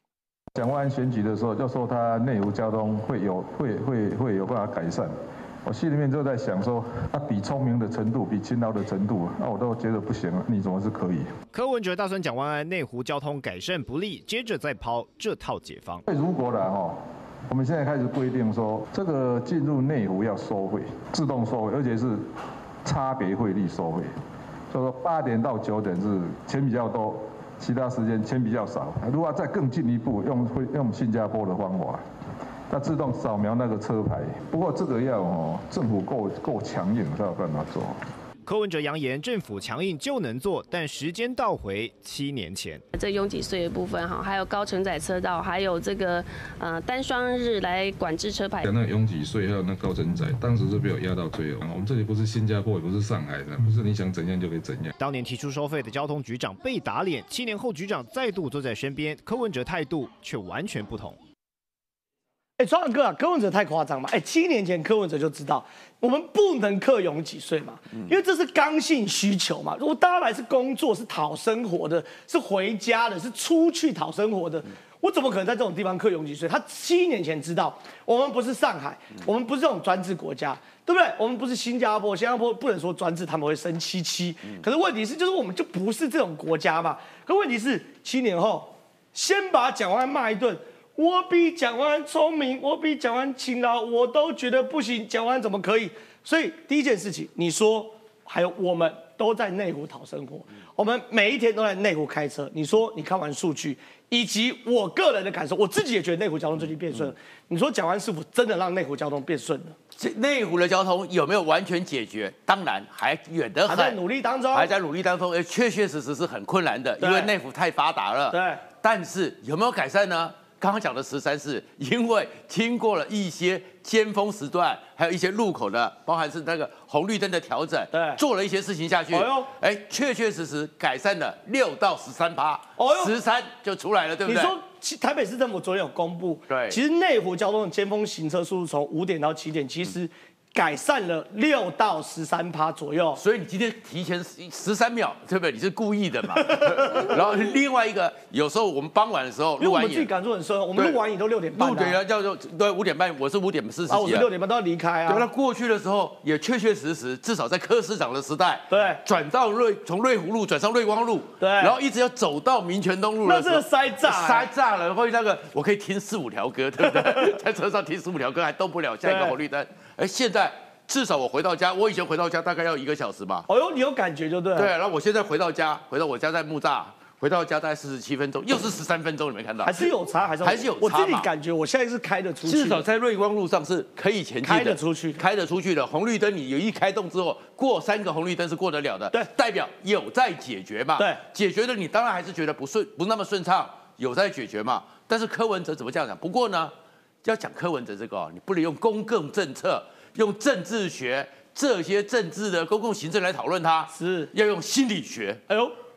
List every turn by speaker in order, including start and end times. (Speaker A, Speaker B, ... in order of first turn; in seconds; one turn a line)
Speaker A: 0.5-5.1
Speaker A: 5.6-11.3
Speaker B: 11.5-16.0
Speaker A: 16.1-22.3
Speaker A: 22.8-24.1
Speaker A: 24.7-32.0
Speaker A: 32.7-38.0
Speaker B: 38.4-42.8
Speaker C: 42.9-48.6
Speaker D: 48.6-55.0
Speaker B: 55.0-61.2
Speaker E: 62.6-109.8
Speaker F: 110.0-114.0
Speaker E: 113.7-114.7
Speaker F: 114.5-134.5
Speaker E: 117.0-117.3
Speaker E: 118.3-118.6
Speaker E: 127.9-128.2
Speaker E: 129.1-129.5
Speaker E: 132.8-133.1
Speaker E: 134.2-143.2
Speaker F: 136.5-136.8
Speaker F: 143.2-150.1
Speaker E: 146.5-147.1
Speaker E: 149.6-152.0
Speaker F: 151.6-154.3
Speaker E: 153.9-155.2
Speaker F: 155.1-173.4
Speaker E: 158.7-159.0
Speaker E: 161.4-161.7
Speaker E: 163.2-164.5
Speaker E: 166.8-167.3
Speaker E: 169.0-169.3
Speaker E: 173.5-174.7
Speaker F: 174.6-179.9
Speaker E: 179.6-182.8
Speaker F: 180.4-181.3
Speaker F: 182.4-196.7
Speaker E: 184.4-185.2
Speaker F: 197.2-205.4
Speaker E: 203.9-204.3
Speaker E: 205.5-205.7